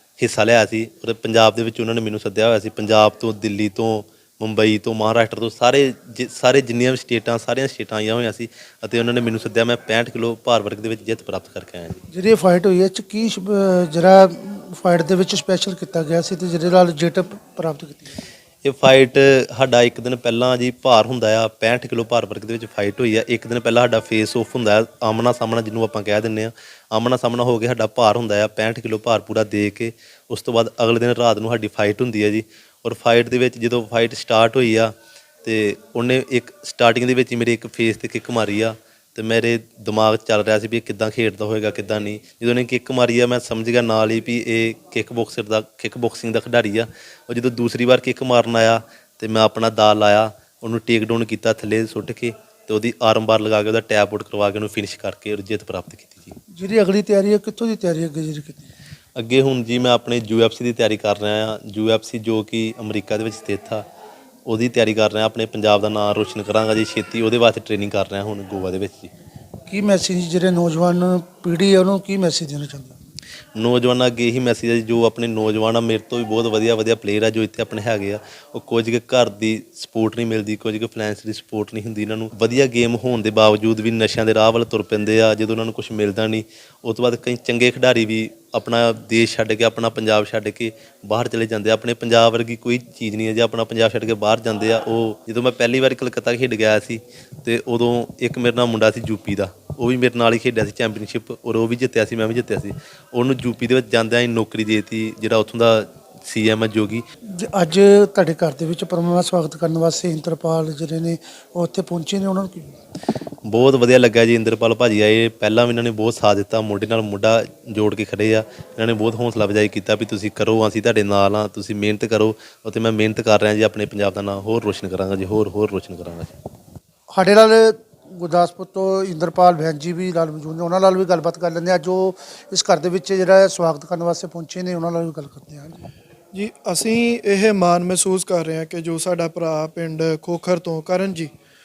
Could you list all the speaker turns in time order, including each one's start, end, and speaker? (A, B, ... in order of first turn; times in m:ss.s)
0:00.2-0:12.0 A
0:12.1-0:18.1 B
0:18.6-0:32.3 A
0:32.8-0:34.8 A
0:35.4-0:36.4 A
0:37.1-0:52.1 A
0:52.7-0:55.8 A
0:56.5-0:58.7 B
0:59.2-1:03.8 A
1:04.4-1:09.0 A
1:09.7-1:12.9 B
1:13.6-1:45.7 A
1:46.5-1:46.8 A
1:47.4-1:52.7 B
1:53.5-2:06.1 A
2:07.1-2:15.8 B
2:16.3-2:21.3 C